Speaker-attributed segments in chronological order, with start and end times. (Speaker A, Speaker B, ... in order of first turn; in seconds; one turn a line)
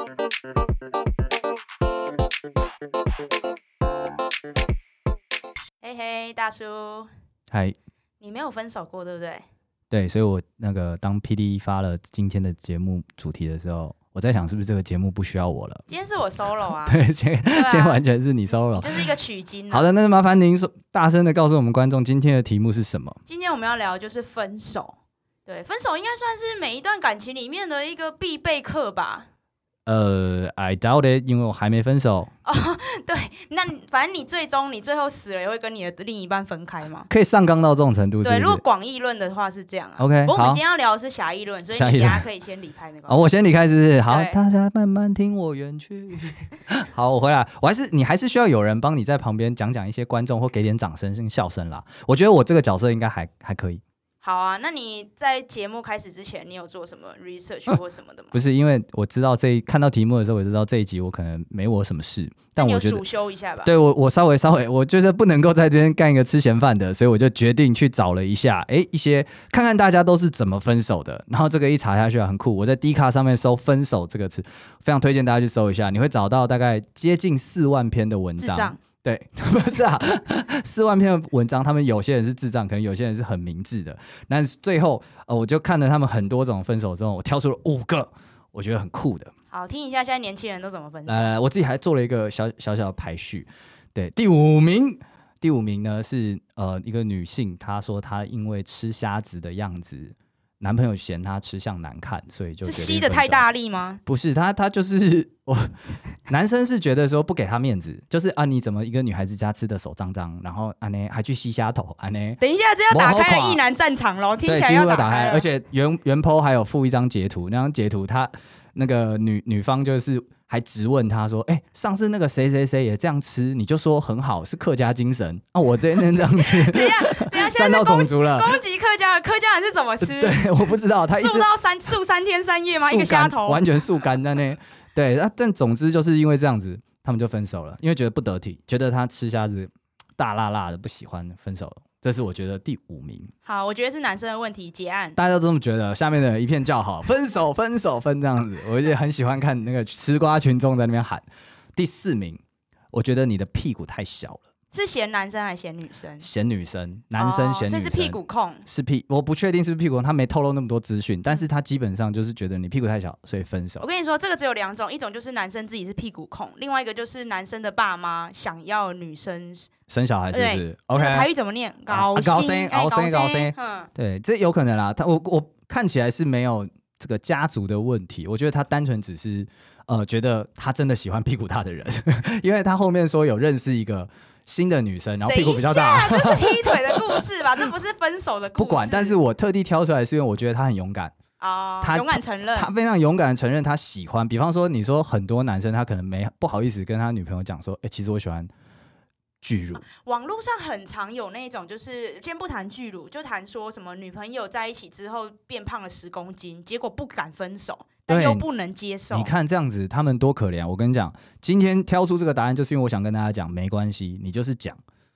Speaker A: 5.8-7.1
Speaker B: 7.5-7.8
Speaker A: 8.2-9.4
Speaker B: 9.9-15.8
Speaker A: 15.9-17.0
Speaker B: 16.8-19.1
Speaker A: 17.5-18.0
Speaker A: 18.7-19.9
Speaker B: 19.7-23.2
Speaker A: 23.3-29.3
Speaker B: 29.9-32.3
Speaker A: 32.5-37.1
Speaker B: 37.1-38.6
Speaker A: 38.2-43.2
Speaker B: 40.0-40.6
Speaker B: 41.7-42.2
Speaker B: 43.1-53.8
Speaker A: 44.1-44.4
Speaker A: 54.2-58.4
Speaker B: 58.3-63.0
Speaker A: 62.6-63.7
Speaker B: 63.6-89.3
Speaker A: 78.4-78.8
Speaker A: 89.5-91.3
Speaker B: 91.1-103.5
Speaker A: 102.6-104.0
Speaker B: 104.0-105.7
Speaker B: 106.3-113.6
Speaker A: 112.4-115.5
Speaker B: 114.5-128.6
Speaker A: 126.5-130.5
Speaker B: 130.0-131.5
Speaker A: 131.1-133.7
Speaker B: 132.7-143.3
Speaker A: 143.4-145.2
Speaker B: 145.2-151.2
Speaker B: 151.8-152.4
Speaker B: 152.9-154.4
Speaker A: 154.7-156.3
Speaker B: 156.2-163.8
Speaker A: 157.2-158.6
Speaker A: 163.8-169.7
Speaker B: 169.9-171.3
Speaker A: 170.3-173.9
Speaker B: 171.9-187.7
Speaker A: 185.3-189.2
Speaker B: 188.6-191.1
Speaker A: 191.4-192.7
Speaker B: 191.8-198.5
Speaker B: 199.4-199.8
Speaker A: 199.8-209.3
Speaker B: 208.1-208.5
Speaker B: 209.1-214.8